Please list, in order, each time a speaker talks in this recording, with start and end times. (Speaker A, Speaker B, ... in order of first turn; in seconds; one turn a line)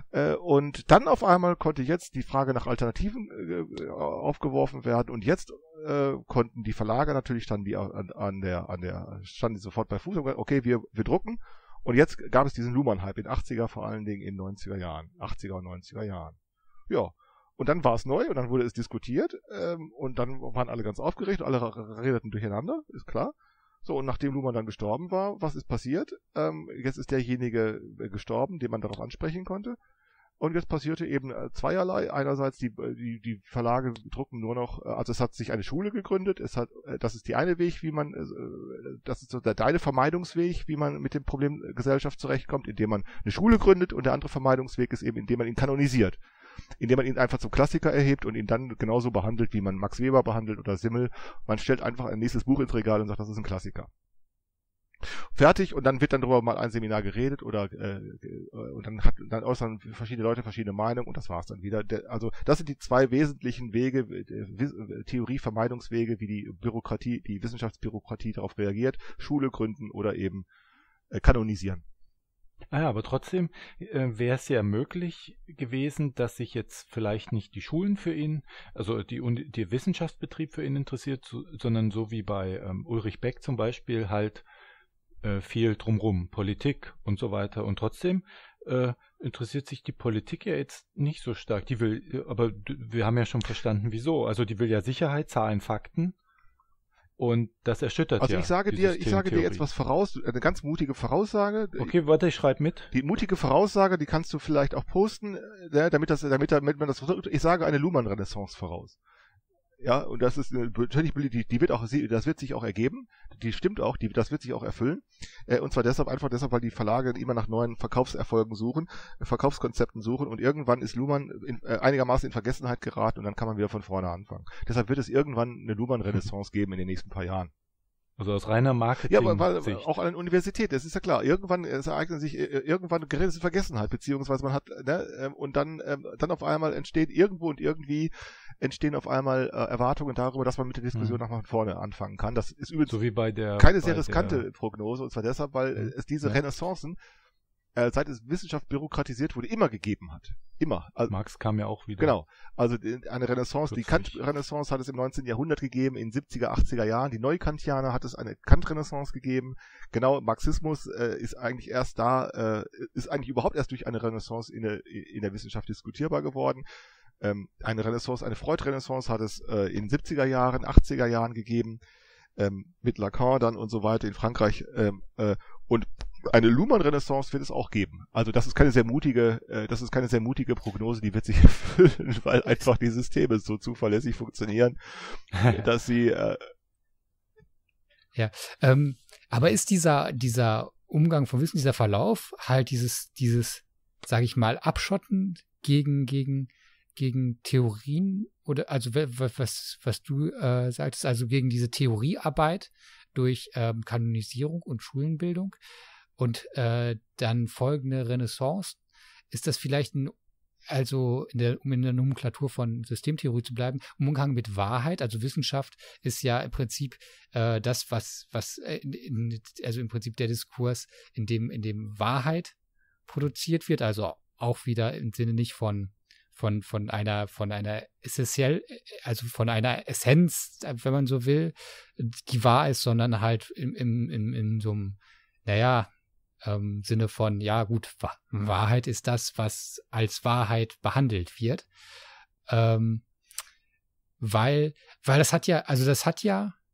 Speaker A: 0.1-16.4
Speaker A: 16.9-29.8
Speaker A: 30.4-46.2
Speaker A: 46.8-53.9
Speaker A: 55.0-70.5
Speaker A: 71.1-71.8
Speaker B: 72.7-84.4
Speaker B: 85.2-96.2
Speaker B: 97.2-99.7
Speaker A: 98.2-101.9
Speaker B: 101.8-102.9
Speaker A: 102.9-109.0
Speaker A: 109.8-127.5
Speaker B: 128.2-129.8
Speaker A: 129.1-143.0
Speaker B: 140.9-141.2
Speaker B: 142.9-144.5
Speaker A: 143.6-147.0
Speaker B: 145.8-146.4
Speaker A: 147.8-151.1
Speaker B: 151.1-152.1
Speaker A: 152.0-166.6
Speaker B: 153.7-154.2
Speaker A: 167.2-171.8
Speaker A: 172.4-186.4
Speaker B: 185.3-185.6
Speaker C: 188.2-205.6
Speaker C: 206.2-208.8
Speaker C: 209.3-210.1
Speaker C: 210.7-222.5
Speaker C: 223.1-235.9
Speaker C: 236.4-241.7
Speaker C: 242.5-243.0
Speaker C: 244.2-246.6